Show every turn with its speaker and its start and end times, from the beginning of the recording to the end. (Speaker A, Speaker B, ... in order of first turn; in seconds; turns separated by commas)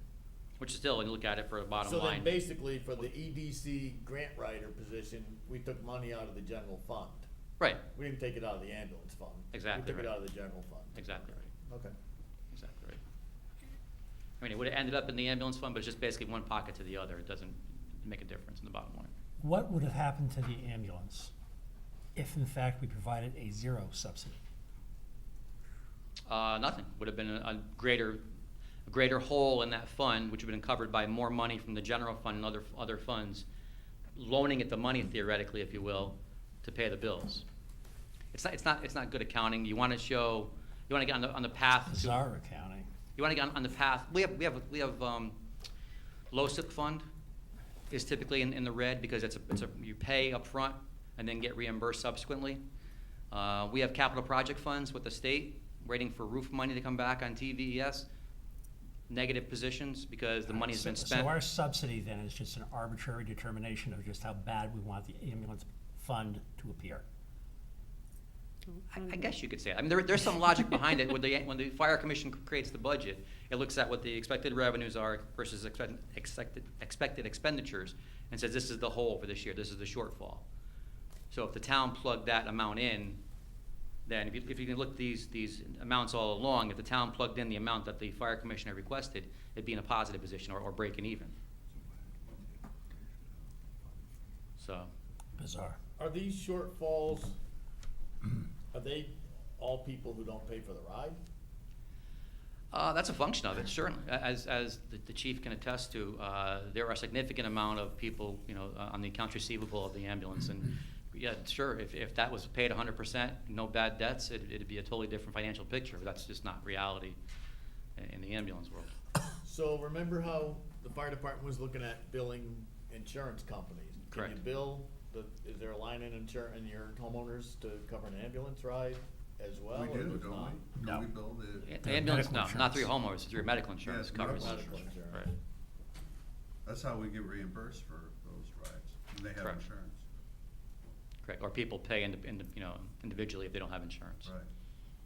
Speaker A: 0.6-2.4, Speaker B: 1.8-7.3, Speaker B: 7.9-11.9, Speaker A: 9.5-10.1, Speaker A: 10.9-11.5, Speaker A: 12.5-13.0, Speaker A: 14.4-19.1, Speaker C: 19.4-21.3, Speaker C: 22.1-24.4, Speaker A: 26.3-28.2, Speaker A: 28.9-33.5, Speaker A: 34.1-37.5, Speaker A: 38.3-42.2, Speaker C: 41.9-42.9, Speaker A: 43.2-45.4, Speaker A: 46.3-47.1, Speaker A: 47.9-52.6, Speaker A: 53.3-58.1, Speaker A: 59.1-61.4, Speaker C: 60.5-67.0, Speaker A: 68.9-80.4, Speaker A: 81.3-83.2, Speaker A: 84.1-91.3, Speaker A: 94.6-94.9, Speaker C: 95.4-95.8, Speaker B: 96.0-97.4, Speaker B: 98.7-101.2, Speaker A: 102.7-117.2, Speaker A: 118.0-118.9, Speaker B: 119.4-130.6, Speaker A: 124.1-124.4, Speaker D: 129.7-131.8, Speaker C: 130.8-131.1, Speaker A: 131.6-135.3, Speaker C: 131.8-132.9, Speaker D: 133.8-134.9, Speaker B: 134.1-135.3, Speaker D: 136.7-140.0, Speaker A: 141.2-144.3